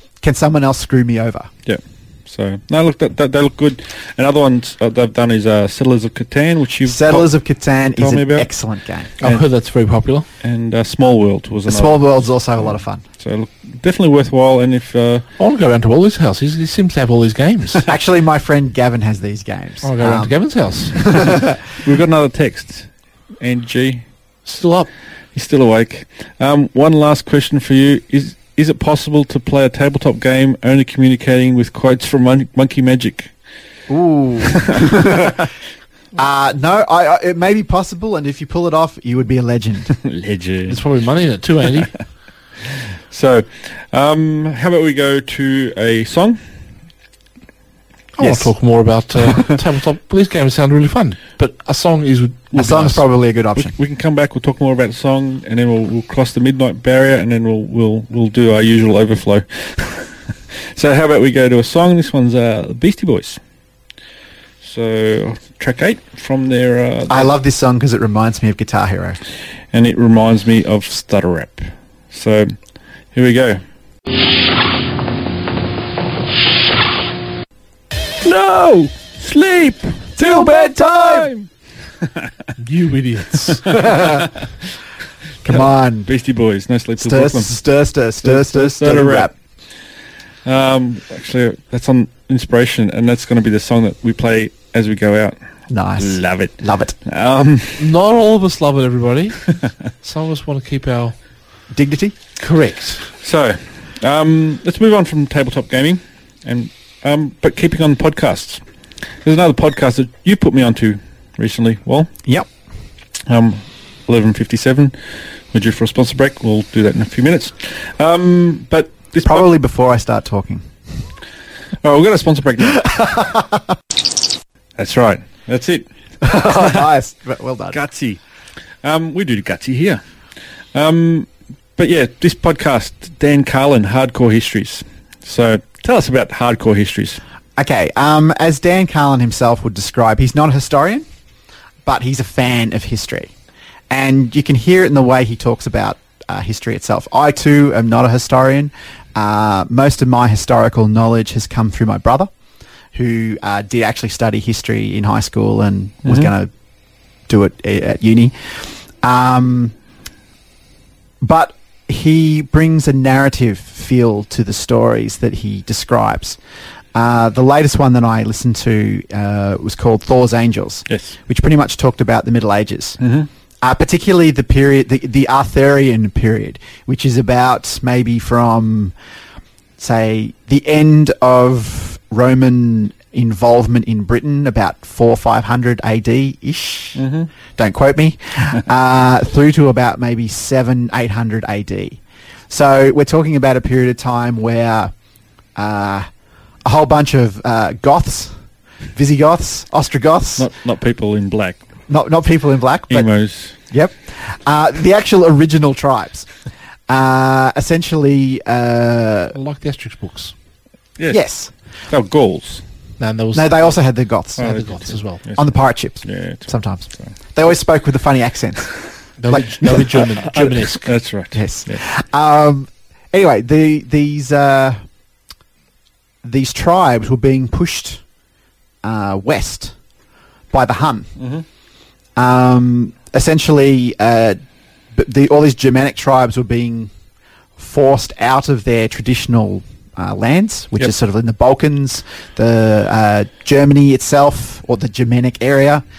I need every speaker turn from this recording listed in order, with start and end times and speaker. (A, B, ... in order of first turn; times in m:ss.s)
0:00.2-0:01.5 A
0:01.6-0:07.3 B
0:06.8-0:09.2 A
0:08.0-0:08.5 B
0:09.2-0:10.3 C
0:10.4-0:15.2 B
0:11.7-0:13.0 A
0:15.4-0:17.8 C
0:17.8-0:20.3 A
0:19.8-0:21.0 C
0:20.9-0:21.6 A
0:21.8-0:22.9 B
0:23.4-0:24.0 B
0:24.4-0:24.9 C
0:25.3-0:33.3 B
0:33.9-0:35.5 A
0:34.4-0:35.0 B
0:36.1-0:39.9 A
0:40.0-0:40.8 B
0:40.7-0:41.9 C
0:43.1-0:46.4 B
0:48.2-0:53.0 C
0:48.2-0:48.5 A
0:52.5-0:53.7 A
0:53.6-1:00.1 B
1:00.7-1:03.4 B
1:04.6-1:07.3 B
1:07.1-1:09.2 A
1:09.7-1:12.5 B
1:13.1-1:13.6 B
1:18.2-1:21.5 B
1:20.2-1:21.3 A
1:22.6-1:23.7 C
1:23.7-1:24.3 B
1:23.7-1:24.3 A
1:25.4-1:26.1 A
1:25.4-1:27.5 B
1:27.0-1:29.3 A
1:28.2-1:29.3 B
1:30.4-1:35.4 B
1:35.7-1:36.9 A
1:36.0-1:37.8 B
1:37.8-1:39.4 C
1:40.0-1:41.2 C
1:41.7-1:42.1 A
1:42.4-1:43.0 C
1:43.2-1:48.6 B
1:49.2-1:52.1 B
1:53.3-1:54.9 B
1:55.5-1:59.5 B
1:59.2-2:00.7 A
2:01.8-2:03.1 B
2:02.8-2:03.5 A
2:04.8-2:06.9 B
2:06.2-2:07.8 A
2:07.7-2:08.2 B
2:08.8-2:10.0 B
2:10.7-2:17.2 B
2:17.6-2:21.0 A
2:21.8-2:23.3 A
2:23.9-2:32.3 A
2:32.9-2:36.5 A
2:36.0-2:36.3 B
2:37.3-2:38.4 A
2:39.0-2:39.7 A
2:41.2-2:46.4 A
2:46.9-2:53.0 A
2:50.9-2:51.2 B
2:53.0-2:53.3 B
2:53.6-2:58.9 A
2:59.8-3:07.0 A
3:07.0-3:07.3 B
3:07.6-3:14.9 A
3:15.6-3:16.1 A
3:16.6-3:18.3 A
3:18.9-3:20.5 A
3:20.4-3:21.6 B
3:21.9-3:23.1 A
3:22.9-3:23.5 B
3:23.7-3:26.3 A
3:26.9-3:29.3 A
3:29.3-3:30.3 C
3:31.1-3:31.5 A
3:31.9-3:32.6 B
3:33.0-3:33.7 C
3:33.3-3:34.5 A
3:34.4-3:35.2 C
3:34.4-3:35.5 B
3:35.4-3:38.7 A
3:36.0-3:37.1 B
3:39.2-3:40.9 C
3:39.3-3:39.8 A
3:40.2-3:41.8 B
3:41.3-3:44.8 A
3:46.2-3:48.0 A
3:48.8-3:49.7 A
3:50.5-3:51.1 A
3:51.2-3:51.4 B
3:52.2-3:54.4 A
3:54.9-3:56.9 A
3:57.6-4:05.8 A